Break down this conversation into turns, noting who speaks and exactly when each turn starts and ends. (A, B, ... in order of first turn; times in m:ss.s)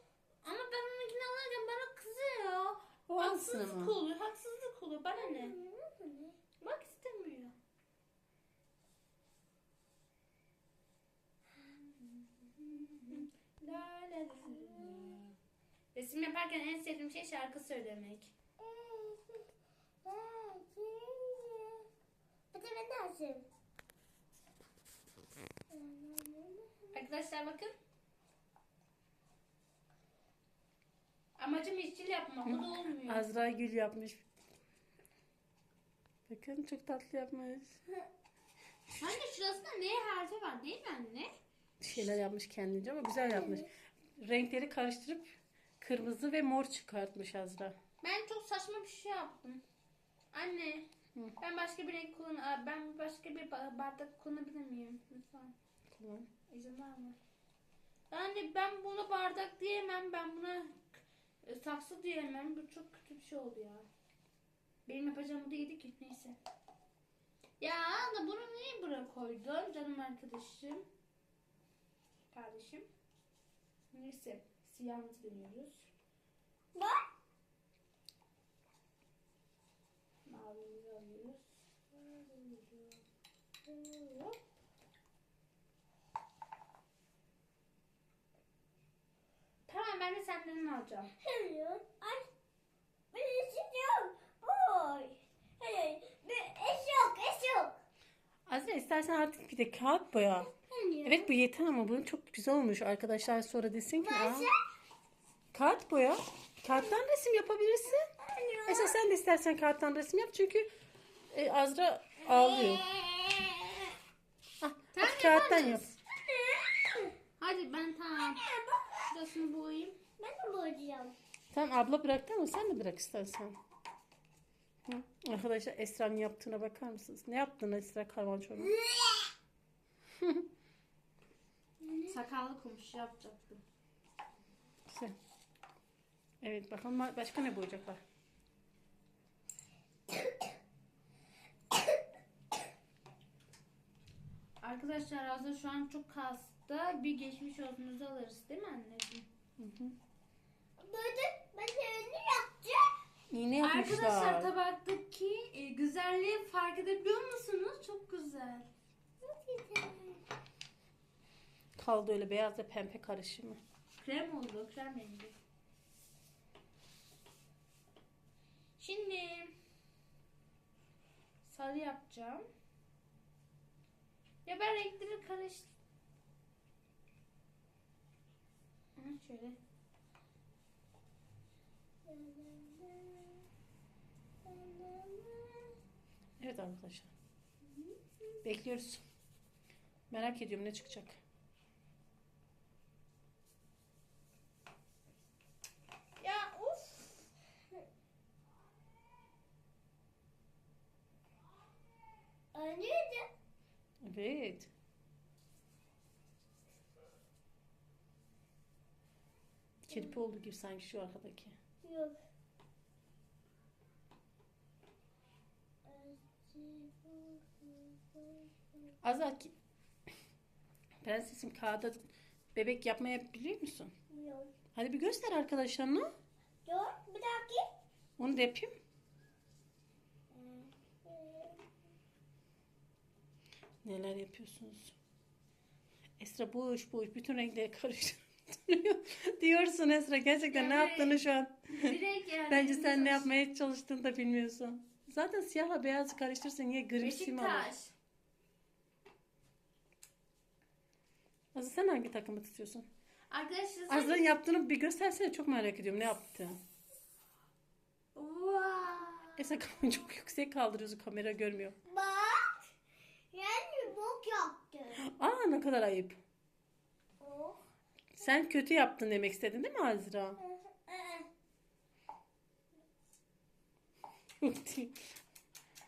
0:00.4-0:05.5 A
0:03.1-0:03.9 B
0:05.2-0:06.4 C
0:06.6-0:07.5 A
0:12.6-0:15.3 A
0:14.4-0:15.2 C
0:15.9-0:18.3 A
0:18.6-0:19.4 C
0:20.0-0:21.8 C
0:22.5-0:23.4 C
0:25.7-0:26.9 C
0:26.9-0:27.7 A
0:31.4-0:33.2 A
0:32.4-0:34.2 B
0:36.3-0:37.8 B
0:39.0-0:41.3 A
0:41.8-0:45.3 B
0:45.8-0:47.7 B
0:48.0-0:49.6 A
0:50.3-0:50.8 A
0:51.4-0:55.5 A
0:55.9-0:56.3 B
0:56.5-0:57.2 A
0:58.1-1:03.8 A
1:04.8-1:06.4 A
1:07.6-1:10.8 A
1:12.3-1:12.8 A
1:13.9-1:15.9 A
1:16.7-1:17.1 C
1:20.2-1:23.0 A
1:23.7-1:24.4 A
1:29.7-1:31.1 A
1:31.2-1:32.3 C
1:33.1-1:37.7 C
1:38.5-1:40.5 B
1:40.5-1:41.3 C
1:41.0-1:44.5 B
1:44.0-1:44.6 C
1:45.5-1:48.0 B
1:48.2-1:49.0 C
1:48.7-1:50.7 B
1:51.3-1:52.8 B
1:52.2-1:53.9 C
1:54.6-1:55.8 B
1:54.9-1:55.9 A
1:56.1-1:57.1 C
1:57.4-1:58.4 A
1:58.2-1:59.1 C
1:59.1-2:00.0 A
2:00.2-2:01.1 C
2:01.5-2:03.6 B
2:04.8-2:08.7 B
2:08.6-2:09.3 C
2:10.2-2:10.4 B
2:11.8-2:12.1 C
2:12.1-2:13.6 A
2:14.9-2:15.1 B
2:16.4-2:18.0 B
2:24.6-2:29.3 A
2:29.6-2:30.0 B
2:30.8-2:32.9 C
2:33.3-2:34.5 B
2:33.6-2:38.7 A
2:39.2-2:40.2 C
2:41.8-2:43.6 B
2:44.0-2:45.3 A
2:48.8-2:49.5 A
2:51.4-2:52.4 A
2:54.4-2:55.7 A
2:59.0-2:59.6 A
3:02.0-3:03.4 C
3:04.4-3:05.7 C
3:06.4-3:07.1 B
3:07.7-3:08.4 C
3:08.4-3:09.0 B
3:10.1-3:11.2 B
3:16.2-3:17.1 C
3:22.5-3:23.3 C
3:24.0-3:24.7 B
3:29.8-3:31.6 B
3:29.9-3:30.2 C
3:31.8-3:32.2 C
3:35.8-3:38.9 C
3:39.0-3:39.5 B
3:41.0-3:43.9 B
3:44.1-3:44.5 C
3:44.7-3:46.1 B
3:46.6-3:47.6 C
3:48.2-3:48.7 B
3:50.3-3:51.6 C
3:53.8-3:54.9 B
3:56.2-4:02.0 B
4:00.5-4:01.2 A
4:01.7-4:03.3 A
4:02.5-4:07.7 B
4:07.0-4:07.9 A
4:11.5-4:12.9 B
4:13.3-4:14.3 A
4:13.9-4:16.6 B
4:18.2-4:19.1 A
4:19.1-4:19.7 C
4:19.4-4:21.8 B
4:21.9-4:22.6 C
4:23.3-4:25.1 C
4:25.0-4:26.2 B
4:27.2-4:27.6 C
4:28.2-4:30.4 B
4:30.4-4:31.3 C
4:34.4-4:34.9 B